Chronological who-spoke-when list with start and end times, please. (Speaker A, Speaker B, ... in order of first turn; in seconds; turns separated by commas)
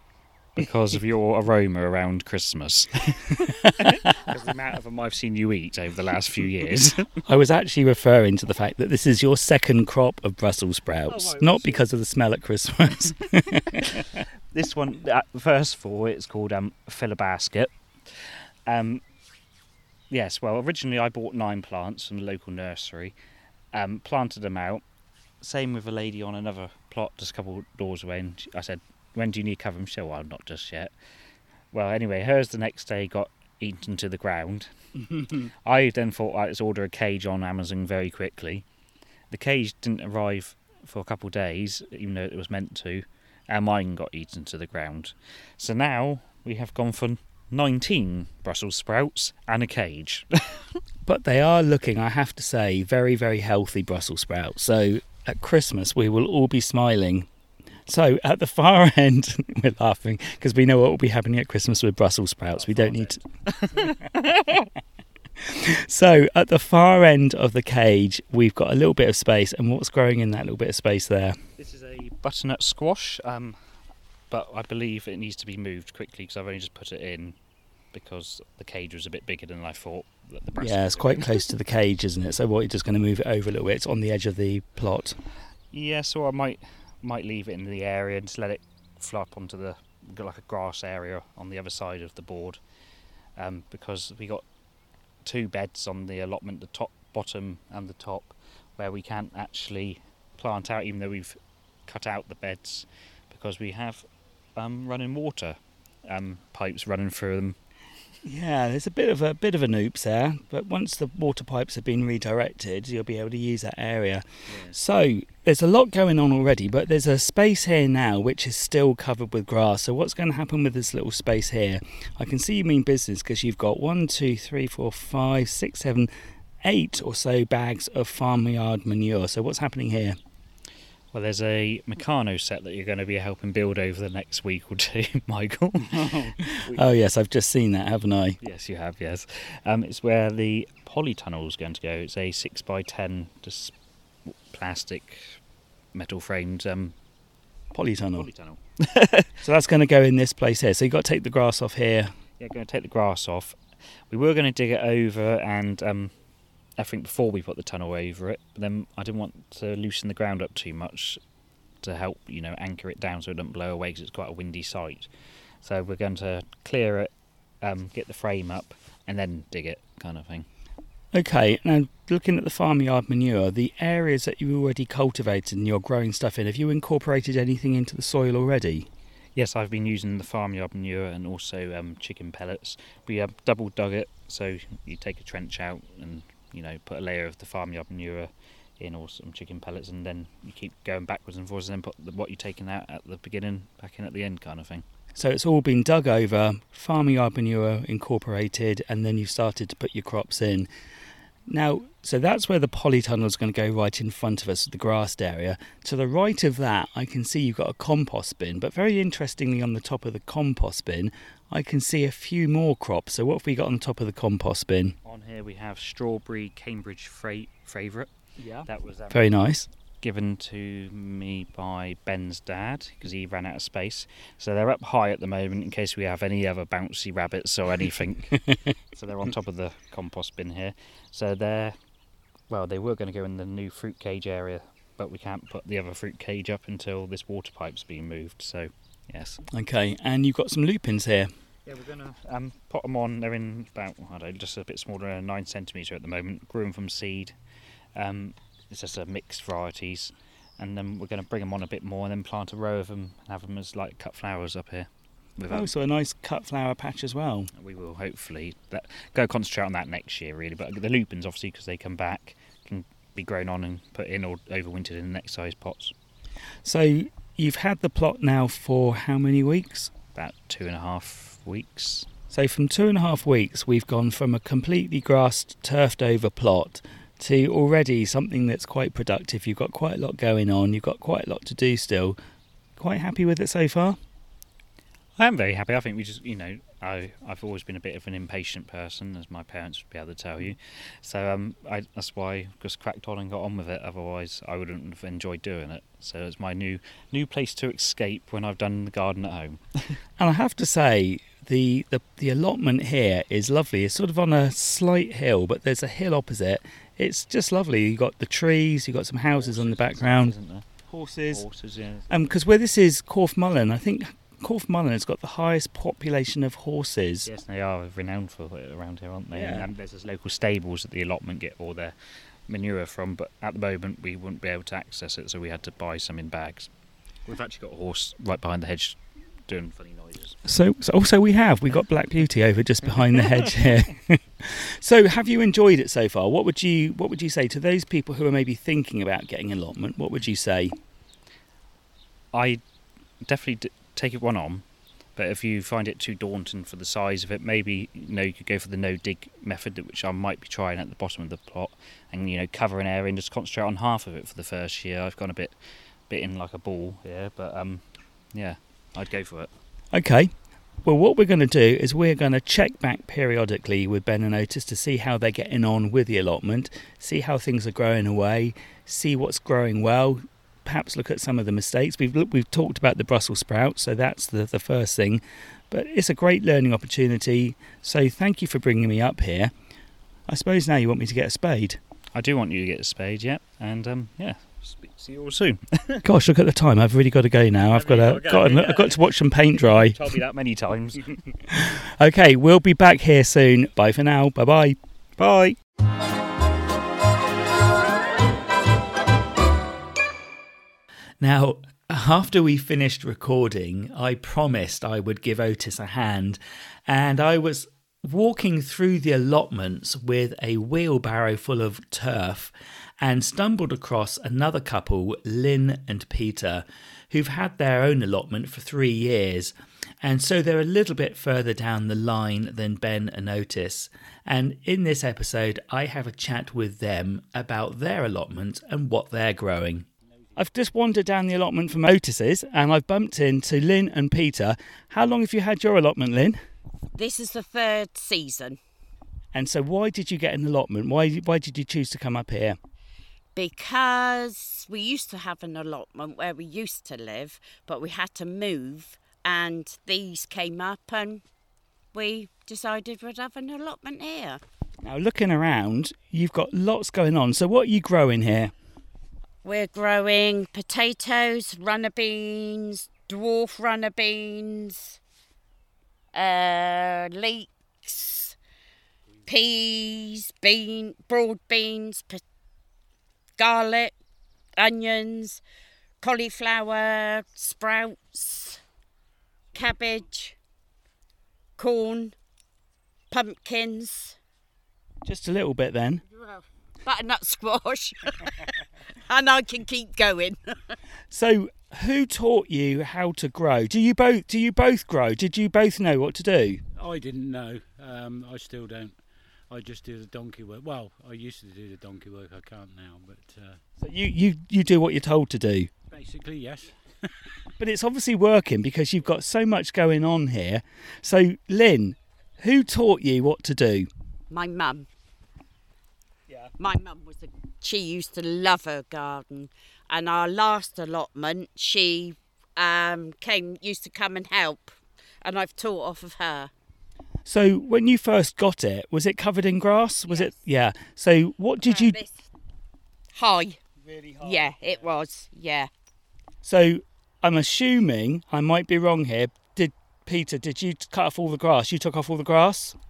Speaker A: 0.6-7.2, Speaker B: 7.2-13.8, Speaker A: 11.1-11.8, Speaker A: 13.5-19.0, Speaker A: 20.1-23.1, Speaker A: 23.7-24.8, Speaker A: 25.4-30.9, Speaker A: 31.7-34.7, Speaker A: 35.3-38.6, Speaker A: 39.3-50.7, Speaker B: 51.0-57.3, Speaker B: 57.9-63.2, Speaker A: 62.5-64.7, Speaker B: 65.4-71.4, Speaker A: 71.6-73.6, Speaker A: 74.3-77.4, Speaker A: 77.9-81.4, Speaker B: 80.6-85.2, Speaker A: 85.7-92.6, Speaker A: 93.4-94.4, Speaker A: 95.2-104.0, Speaker A: 104.6-107.6, Speaker B: 108.2-126.1, Speaker A: 114.5-114.8, Speaker B: 126.6-130.2, Speaker A: 131.1-136.9, Speaker B: 136.0-138.4, Speaker A: 138.4-143.8, Speaker A: 144.3-145.4, Speaker A: 145.9-146.9, Speaker B: 147.7-148.3, Speaker A: 148.1-149.3, Speaker B: 149.4-152.1, Speaker A: 152.4-153.6, Speaker A: 154.1-156.1, Speaker A: 156.8-161.2, Speaker A: 161.8-165.1, Speaker A: 165.6-167.1, Speaker A: 167.6-170.5, Speaker B: 171.1-178.9, Speaker A: 179.3-194.8, Speaker B: 195.2-200.7, Speaker B: 201.5-214.9, Speaker A: 215.0-218.1, Speaker B: 218.4-219.7, Speaker A: 218.7-219.3, Speaker A: 220.0-231.8, Speaker A: 232.5-239.4, Speaker B: 239.5-241.3, Speaker A: 241.7-247.4, Speaker A: 247.9-255.7, Speaker B: 255.5-257.5, Speaker A: 257.5-265.9, Speaker B: 266.6-269.9, Speaker A: 270.1-272.1, Speaker B: 272.3-282.2, Speaker B: 282.8-284.0, Speaker A: 285.2-300.0, Speaker B: 300.2-310.3, Speaker A: 309.4-310.7, Speaker B: 310.9-311.4, Speaker A: 311.3-312.4, Speaker B: 312.1-317.3, Speaker A: 317.3-321.9, Speaker B: 319.3-319.7, Speaker A: 322.5-326.7, Speaker A: 327.3-330.4, Speaker B: 330.5-340.8, Speaker A: 333.2-333.5, Speaker A: 342.3-342.6, Speaker A: 343.2-344.6, Speaker A: 345.2-355.6, Speaker A: 356.1-359.5, Speaker B: 359.9-360.3, Speaker B: 360.9-379.5, Speaker B: 380.3-381.8, Speaker A: 382.1-386.0, Speaker B: 386.0-390.0, Speaker A: 387.7-391.2, Speaker B: 391.5-394.8, Speaker A: 395.2-395.6, Speaker B: 401.2-436.4, Speaker C: 436.9-438.6, Speaker B: 439.3-442.6, Speaker C: 443.4-451.2, Speaker C: 451.9-454.4, Speaker B: 454.8-458.5, Speaker C: 459.4-465.0, Speaker C: 466.1-468.4, Speaker C: 469.3-472.2, Speaker C: 473.4-473.9, Speaker C: 474.6-475.4, Speaker C: 476.0-478.6, Speaker C: 479.5-480.4, Speaker C: 481.6-482.1, Speaker C: 483.1-484.2, Speaker B: 485.1-486.0, Speaker C: 486.1-490.8, Speaker B: 491.1-496.6, Speaker D: 496.8-503.6, Speaker B: 503.8-505.7, Speaker D: 505.9-507.5, Speaker B: 507.6-513.9, Speaker C: 514.3-514.9, Speaker C: 516.6-526.5, Speaker B: 527.3-531.9, Speaker C: 530.1-530.4, Speaker C: 531.6-532.3, Speaker C: 533.1-533.6, Speaker B: 533.8-534.7, Speaker C: 534.2-535.7, Speaker B: 536.4-542.8